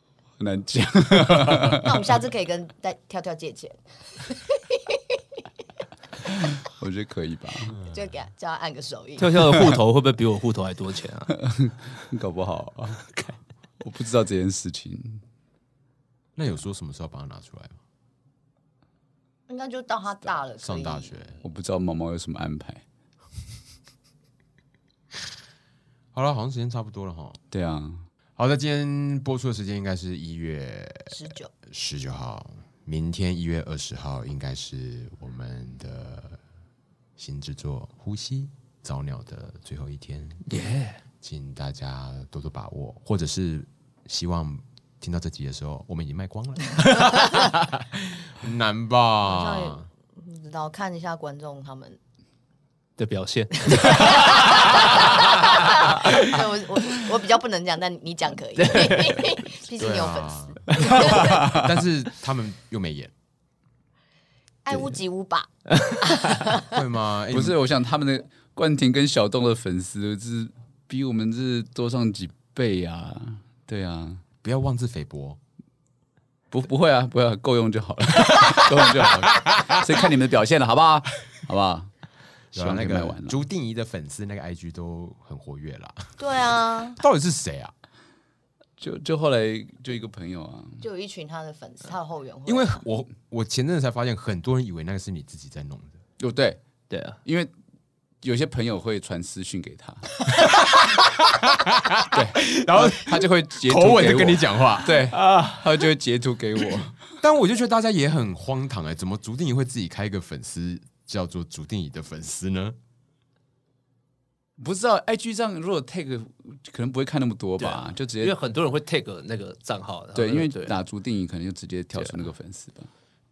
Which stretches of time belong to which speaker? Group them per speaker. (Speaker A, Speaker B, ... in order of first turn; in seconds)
Speaker A: 0.4-2.0, 6.3-7.7, 11.3-13.1, 13.8-15.2, 21.4-22.8, 27.5-28.0, 61.2-61.6, 67.3-74.2, 76.5-81.9, 82.5-83.4, 88.8-90.8, 96.2-96.6, 97.2-97.5, 98.2-100.1, 102.1-107.0, 114.6-118.4, 120.1-122.9
Speaker B: 1.7-5.2, 7.8-9.6, 19.5-21.2, 31.1-31.5, 49.2-52.0, 53.6-61.4, 64.6-66.7, 86.2-87.0, 90.8-92.8
Speaker C: 9.2-11.3, 40.5-41.0, 53.0-56.4, 58.6-59.2, 64.7-65.0, 65.8-66.5, 96.9-97.2, 117.6-120.7
Speaker D: 16.4-17.8, 20.6-21.4, 26.1-27.4, 28.4-36.4, 37.2-40.5, 41.2-49.9, 59.8-63.1, 66.7-67.6, 74.4-75.4, 79.2-79.8, 82.5-86.2, 87.0-87.7, 92.5-96.0, 101.3-105.0, 107.2-112.8